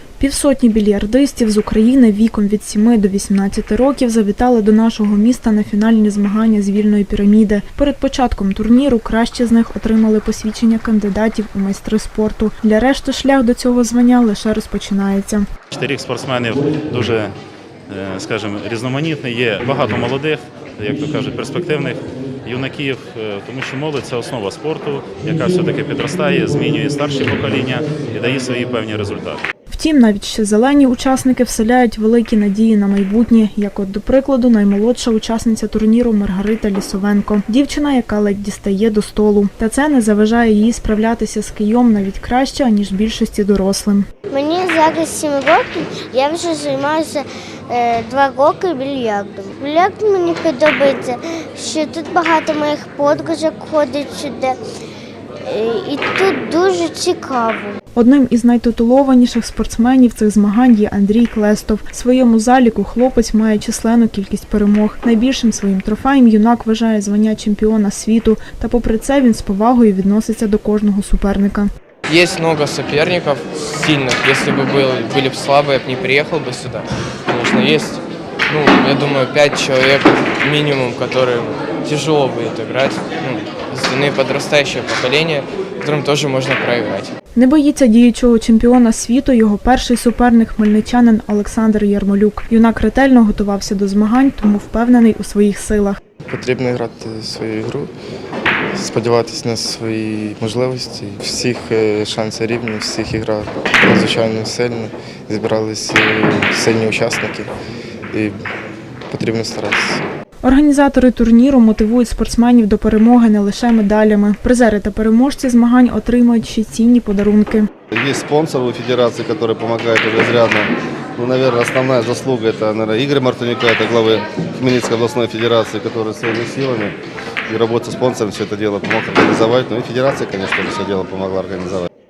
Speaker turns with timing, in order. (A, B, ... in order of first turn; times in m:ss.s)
0:00.2-0:15.5 A
0:15.7-0:17.3 B
0:17.9-0:29.4 B
0:29.7-0:44.1 A
0:44.3-0:54.6 C
0:55.4-0:57.8 C
0:57.9-1:11.7 A
1:12.1-1:27.1 D
1:27.4-1:36.0 A
1:36.3-1:37.9 E
1:38.7-1:47.5 E
1:48.1-1:48.4 E
1:49.1-1:50.1 E
1:50.4-1:57.7 A
1:57.9-2:07.0 F
2:07.5-2:11.9 F